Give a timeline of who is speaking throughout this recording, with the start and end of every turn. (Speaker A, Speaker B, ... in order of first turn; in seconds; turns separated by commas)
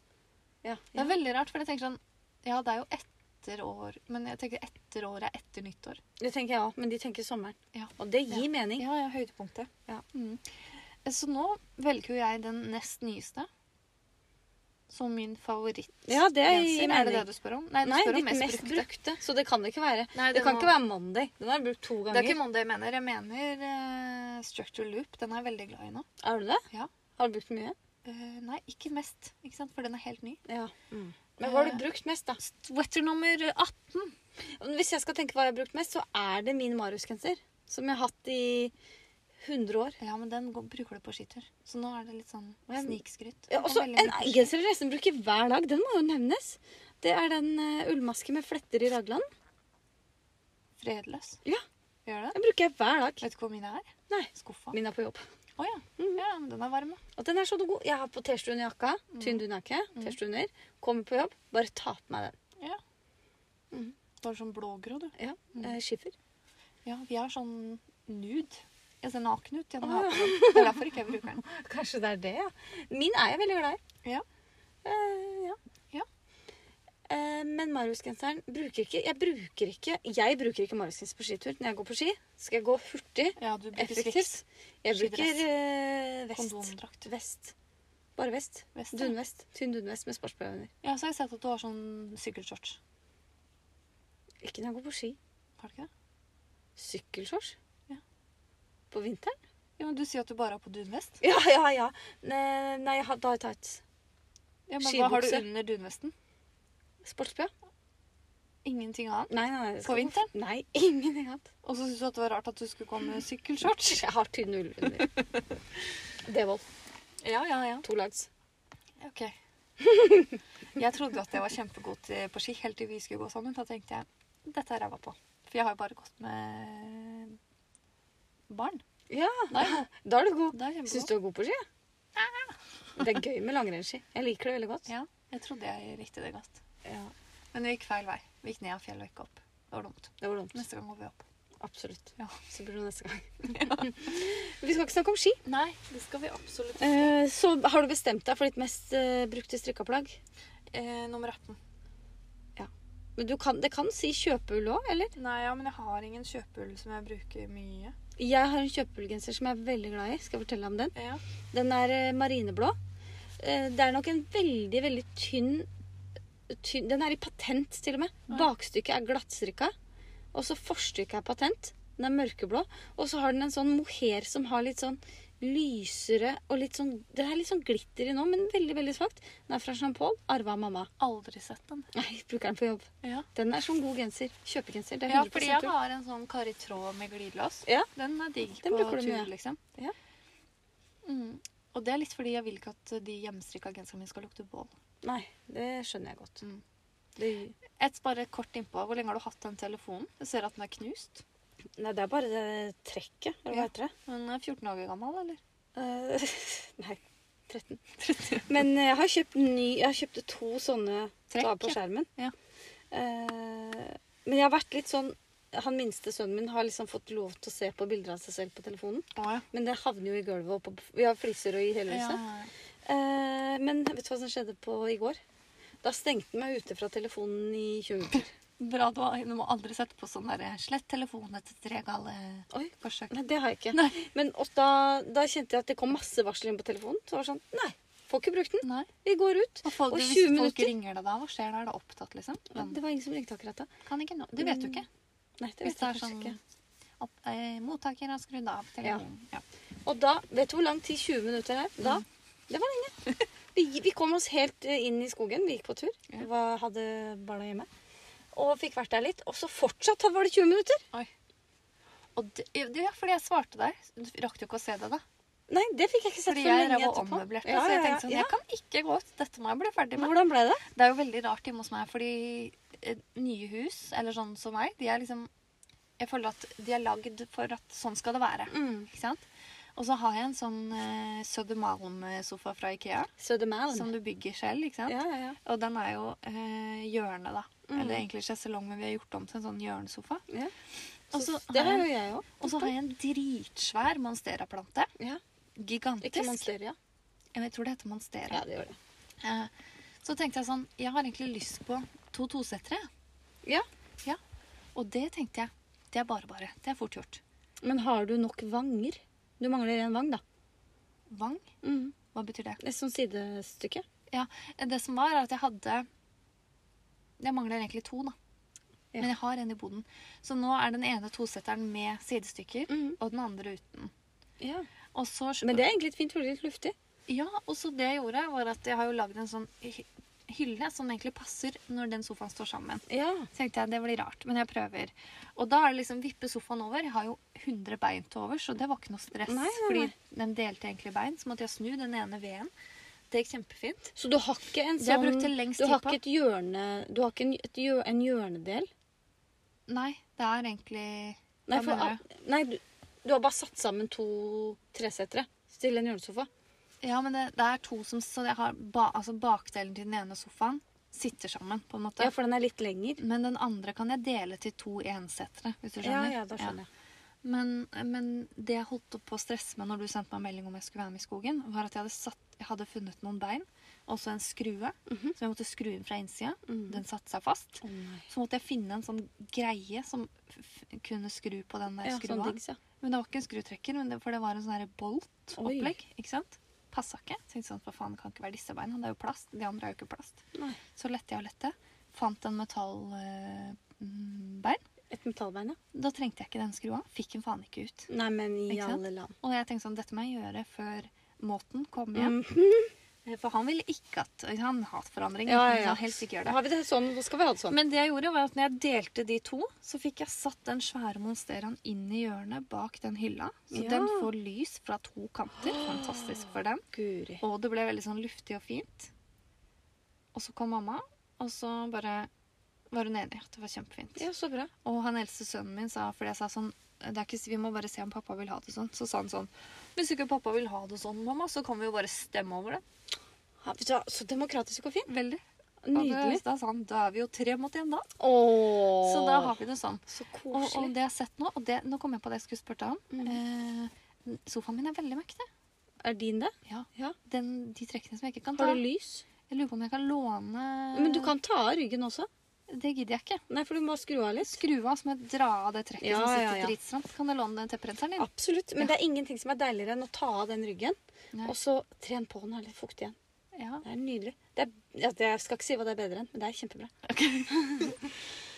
Speaker A: 0.6-1.1, Speaker B: 0.9-6.0, Speaker A: 6.2-8.8, Speaker B: 7.7-13.5, Speaker B: 14.9-18.9, Speaker A: 16.1-17.3, Speaker A: 17.8-22.4, Speaker B: 20.1-20.7, Speaker B: 22.1-26.1, Speaker A: 26.2-26.6, Speaker A: 27.2-27.7, Speaker B: 28.0-30.4, Speaker A: 30.5-32.4, Speaker B: 31.4-31.8, Speaker B: 32.4-34.1, Speaker A: 34.6-38.7, Speaker A: 39.4-40.0, Speaker B: 40.0-44.5, Speaker A: 42.7-43.0, Speaker A: 43.5-49.2, Speaker B: 50.8-51.4, Speaker B: 52.0-52.4, Speaker A: 52.3-53.2, Speaker B: 53.2-54.8, Speaker A: 54.1-55.2, Speaker B: 55.6-57.0, Speaker A: 57.2-62.4, Speaker B: 59.1-59.4, Speaker B: 64.2-65.7, Speaker A: 65.2-66.1, Speaker B: 66.8-71.4, Speaker A: 69.8-70.8, Speaker A: 71.4-73.8, Speaker A: 74.8-75.6, Speaker A: 77.1-87.5, Speaker B: 83.4-84.4, Speaker B: 84.9-85.5, Speaker B: 86.3-87.1, Speaker A: 88.2-90.7, Speaker B: 88.7-89.1, Speaker B: 90.8-92.8, Speaker A: 94.4-95.2, Speaker B: 95.6-95.9, Speaker A: 96.8-97.5, Speaker A: 98.9-99.3, Speaker B: 99.8-101.2, Speaker A: 101.2-103.8, Speaker B: 104.7-106.1, Speaker A: 104.8-105.5, Speaker A: 107.0-107.5, Speaker B: 108.6-110.3, Speaker A: 109.3-111.5, Speaker B: 111.6-114.0, Speaker A: 113.7-115.1, Speaker B: 115.0-115.2, Speaker A: 116.2-116.6, Speaker B: 117.2-117.8, Speaker A: 117.8-118.3, Speaker B: 119.0-119.3, Speaker A: 119.8-120.4, Speaker B: 120.7-127.4, Speaker B: 128.5-128.8, Speaker A: 129.1-131.6, Speaker B: 129.5-129.8, Speaker B: 130.5-131.1, Speaker B: 132.2-132.6, Speaker A: 133.0-134.9, Speaker B: 134.9-136.6, Speaker A: 136.8-137.1, Speaker B: 137.5-141.2, Speaker A: 140.2-140.6, Speaker A: 141.6-145.4, Speaker B: 143.5-143.9, Speaker B: 145.4-147.1, Speaker A: 146.8-150.2, Speaker B: 150.7-151.6, Speaker A: 152.6-155.1, Speaker B: 155.2-157.9, Speaker A: 158.2-160.9, Speaker B: 160.9-161.2, Speaker A: 161.5-162.8, Speaker A: 163.4-165.7, Speaker A: 166.5-169.7, Speaker A: 170.3-180.9, Speaker B: 181.0-181.9, Speaker A: 181.9-185.7, Speaker B: 185.1-189.6, Speaker A: 188.6-189.9, Speaker B: 191.0-194.7, Speaker A: 195.0-196.4, Speaker A: 197.2-197.6, Speaker B: 197.7-201.2, Speaker A: 201.8-203.9, Speaker B: 203.5-205.4, Speaker A: 205.8-207.8, Speaker B: 208.0-208.5, Speaker A: 208.4-212.1, Speaker B: 211.3-212.3, Speaker A: 212.9-222.2, Speaker B: 219.1-219.4, Speaker B: 221.9-222.5, Speaker A: 222.8-225.2, Speaker A: 225.8-228.3, Speaker B: 228.6-233.1, Speaker A: 232.5-240.7, Speaker B: 233.7-234.0, Speaker B: 238.6-238.9, Speaker B: 239.6-242.8, Speaker A: 242.5-243.7, Speaker B: 243.8-244.9, Speaker A: 244.3-244.8, Speaker A: 245.4-246.4, Speaker B: 245.6-246.4, Speaker B: 247.0-249.4, Speaker A: 249.8-257.7, Speaker A: 258.3-260.8, Speaker B: 262.1-265.0, Speaker A: 265.5-268.4, Speaker B: 266.2-275.3, Speaker A: 269.9-270.6, Speaker B: 276.0-283.1, Speaker A: 278.5-278.9, Speaker A: 283.2-283.9, Speaker B: 283.7-290.2, Speaker A: 284.9-285.4, Speaker A: 287.7-288.0, Speaker B: 291.1-294.9, Speaker A: 291.1-292.7, Speaker B: 295.6-296.5, Speaker A: 296.0-296.8, Speaker B: 297.3-298.4, Speaker A: 298.3-298.8, Speaker B: 299.2-299.5, Speaker B: 300.0-302.9, Speaker B: 304.7-307.2, Speaker A: 307.6-310.2, Speaker B: 311.1-311.5, Speaker A: 311.6-311.9, Speaker B: 312.1-312.6, Speaker A: 312.6-313.8, Speaker B: 314.1-315.9, Speaker B: 317.2-318.1, Speaker B: 319.0-323.9, Speaker A: 322.7-323.0, Speaker A: 324.4-324.7, Speaker B: 324.9-325.7, Speaker A: 325.4-326.7, Speaker B: 327.1-342.5, Speaker A: 332.9-333.3, Speaker A: 339.3-339.9, Speaker B: 343.1-343.9, Speaker A: 343.9-348.7, Speaker B: 344.8-346.0, Speaker B: 349.7-352.0, Speaker A: 351.5-356.3, Speaker B: 356.8-362.1, Speaker A: 362.0-363.0, Speaker B: 363.0-366.6, Speaker A: 365.8-366.7, Speaker B: 367.2-390.2, Speaker A: 374.9-375.1, Speaker A: 376.5-376.8, Speaker A: 377.6-378.1, Speaker A: 381.8-382.6, Speaker A: 385.4-385.7, Speaker A: 390.3-390.6, Speaker B: 390.7-394.6, Speaker A: 394.9-395.6, Speaker B: 395.7-397.9, Speaker A: 397.9-399.1, Speaker B: 398.5-402.2, Speaker A: 401.9-402.7, Speaker B: 403.0-406.4, Speaker A: 405.3-407.6, Speaker B: 407.5-416.6, Speaker A: 413.5-414.1, Speaker A: 415.4-417.2, Speaker B: 417.2-418.9, Speaker B: 420.1-422.1, Speaker B: 422.7-424.1, Speaker A: 423.9-424.5, Speaker B: 424.6-432.6, Speaker A: 433.4-434.9, Speaker B: 434.9-435.2, Speaker A: 435.6-436.2, Speaker B: 435.7-437.9, Speaker A: 438.0-439.4, Speaker B: 438.8-445.2, Speaker A: 439.9-440.7, Speaker A: 442.9-443.2, Speaker A: 445.8-446.9, Speaker B: 446.4-448.6, Speaker A: 448.3-449.0, Speaker B: 449.3-451.1, Speaker A: 450.7-452.1, Speaker B: 452.5-453.2, Speaker A: 453.3-454.4, Speaker B: 454.2-458.1, Speaker A: 455.8-456.5, Speaker A: 458.0-462.9, Speaker B: 463.3-463.6, Speaker A: 463.6-466.7, Speaker B: 466.9-467.8, Speaker A: 467.3-467.8